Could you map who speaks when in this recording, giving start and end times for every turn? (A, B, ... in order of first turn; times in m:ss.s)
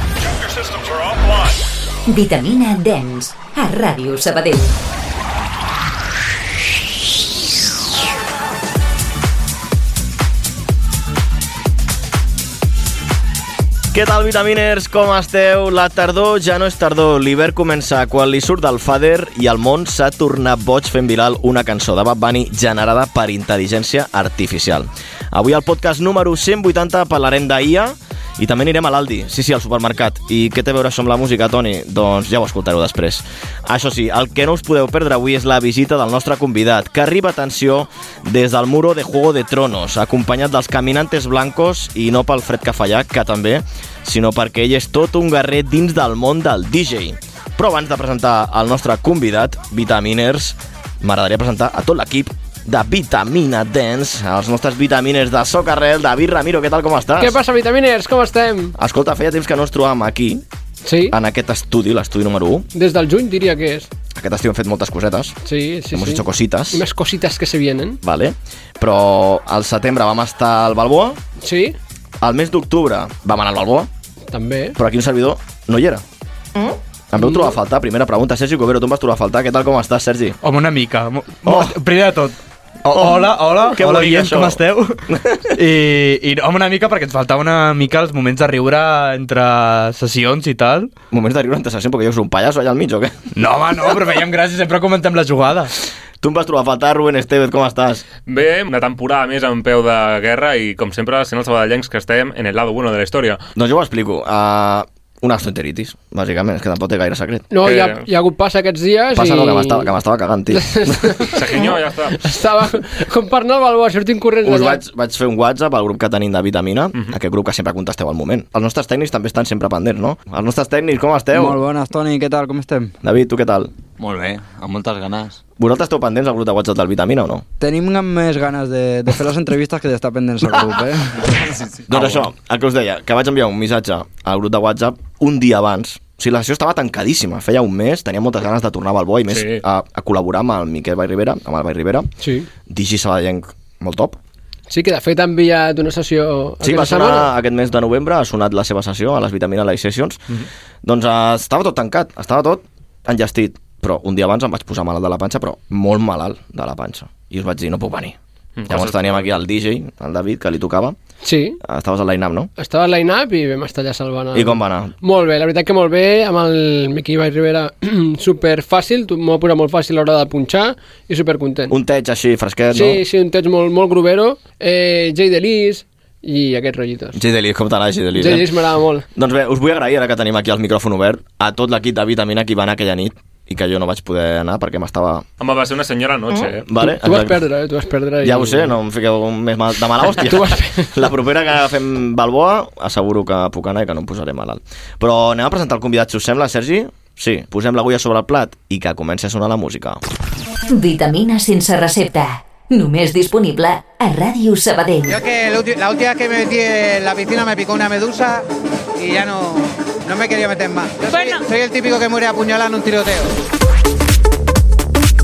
0:02.1-0:04.7 A
0:13.9-0:57.4 B
0:57.2-0:58.7 C
0:58.8-1:00.4 B
1:00.8-1:01.2 C
1:01.1-1:02.7 B
1:02.7-1:03.9 C
1:04.1-1:05.3 B
1:05.4-1:08.0 C
1:05.9-1:06.8 B
1:08.0-1:11.2 B
1:11.4-1:11.8 C
1:12.2-1:13.9 B
1:14.3-1:14.8 C
1:14.8-1:16.0 B
1:16.6-1:20.4 B
1:20.4-1:22.3 D
1:21.4-1:21.8 B
1:22.8-1:30.9 D
1:22.9-1:25.6 B
1:31.1-1:33.2 B
1:33.3-1:35.7 D
1:36.2-1:38.0 B
1:38.3-1:43.4 E
1:43.6-1:47.5 B
1:47.5-1:49.9 C
1:47.6-1:48.0 E
1:49.1-1:51.4 B
1:50.5-1:54.8 C
1:51.3-1:52.3 E
1:54.4-2:01.6 B
2:01.3-2:02.9 F
2:03.0-2:03.7 B
2:04.0-2:05.4 G
2:05.6-2:07.4 B
2:07.6-2:11.4 F
2:11.2-2:12.2 G
2:11.9-2:22.1 B
2:19.3-2:19.6 E
2:22.2-2:22.5 C
2:22.7-2:24.2 B
2:24.7-2:27.3 C
2:26.6-2:38.2 B
2:38.6-2:39.2 E
2:38.7-2:41.0 B
2:41.2-2:41.6 C
2:41.6-2:42.5 B
2:42.6-2:51.7 C
2:44.3-2:44.9 B
2:51.7-2:53.0 B
2:52.7-2:57.2 C
2:57.1-2:58.5 B
2:58.2-2:59.0 C
2:59.1-3:05.2 B
3:05.4-3:06.6 E
3:06.3-3:07.4 B
3:06.8-3:08.7 C
3:08.2-3:20.0 B
3:20.7-3:25.2 A
3:25.0-3:28.4 H
3:29.0-3:33.4 H